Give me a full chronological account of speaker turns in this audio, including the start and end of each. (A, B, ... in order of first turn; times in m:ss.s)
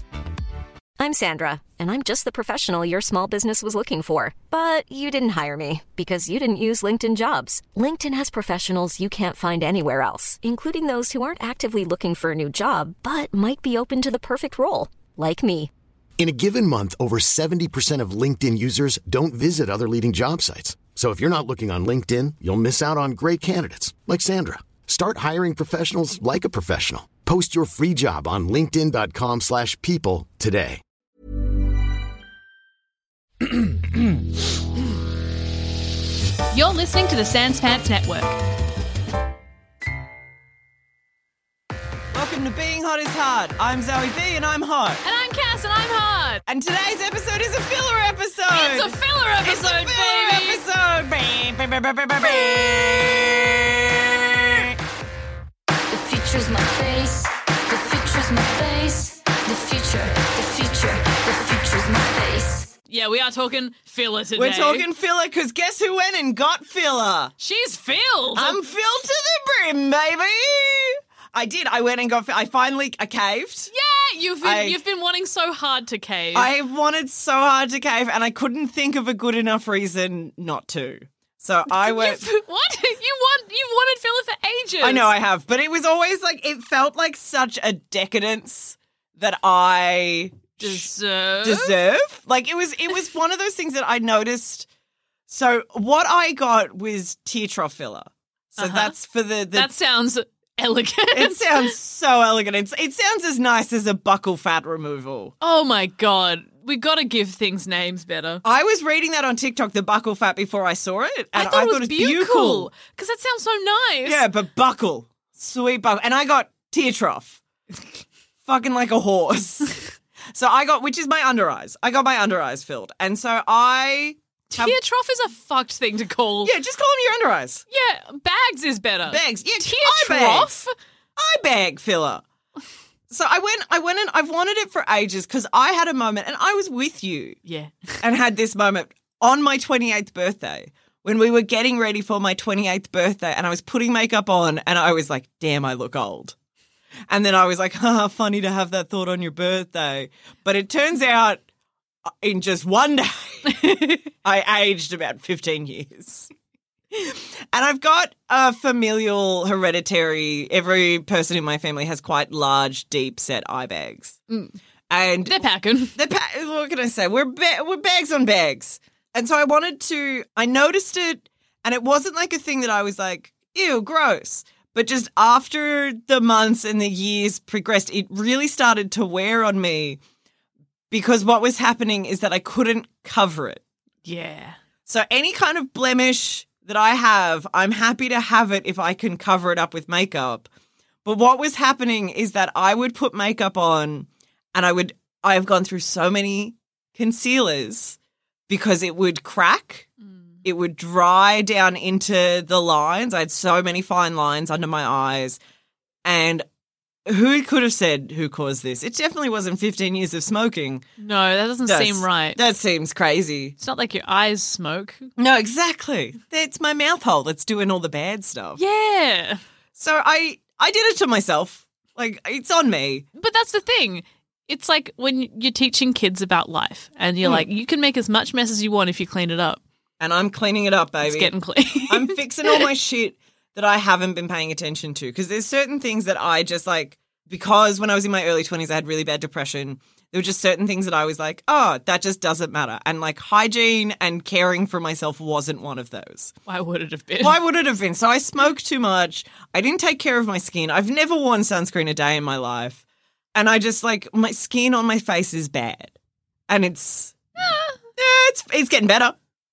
0:01.0-0:15.7 A
0:16.2-0:30.8 B
0:36.5-0:38.4 C
0:42.1-0:45.0 D
0:45.0-0:46.4 C
0:46.5-0:54.8 D
0:48.5-0:50.6 C
0:52.2-0:53.2 C
0:55.9-1:02.7 E
1:02.9-1:04.9 C
1:04.4-1:07.3 D
1:07.4-1:08.6 C
1:08.4-1:13.7 D
1:13.7-1:16.5 C
1:14.4-1:14.8 D
1:16.4-1:22.2 D
1:21.7-1:25.1 C
1:24.8-1:30.9 D
1:30.6-1:31.7 C
1:31.4-1:34.7 D
1:35.3-1:39.7 D
1:38.6-1:38.9 C
1:39.5-1:41.7 C
1:41.1-1:45.3 D
1:45.4-1:48.4 C
1:48.4-1:52.7 D
1:51.4-1:54.2 C
1:54.0-1:57.4 D
1:58.4-1:59.8 D
2:00.4-2:04.8 D
2:04.5-2:06.5 C
2:06.4-2:07.6 D
2:07.7-2:10.7 C
2:09.1-2:10.5 D
2:11.2-2:12.2 D
2:13.1-2:17.4 D
2:17.5-2:18.0 C
2:18.0-2:26.4 D
2:27.1-2:31.4 D
2:32.2-2:36.3 D
2:33.5-2:34.0 C
2:36.9-2:44.2 D
2:44.3-2:44.6 C
2:44.9-2:45.4 D
2:45.3-2:46.0 C
2:46.0-3:00.0 D
3:00.9-3:03.6 D
3:04.0-3:04.6 C
3:04.9-3:10.5 D
3:11.0-3:18.0 D
3:18.5-3:19.9 D
3:20.4-3:25.4 D
3:26.0-3:26.4 D
3:27.1-3:30.8 D
3:31.0-3:32.4 C
3:31.7-3:33.6 D
3:33.6-3:35.1 C
3:35.2-3:38.6 D
3:38.6-3:39.4 C
3:39.8-3:43.1 D
3:43.2-3:49.6 C
3:50.0-3:51.3 D
3:51.0-3:52.7 C
3:51.9-4:06.3 D
4:06.5-4:07.4 C
4:07.2-4:12.8 D
4:13.4-4:15.9 D
4:16.5-4:19.2 D
4:17.4-4:17.8 C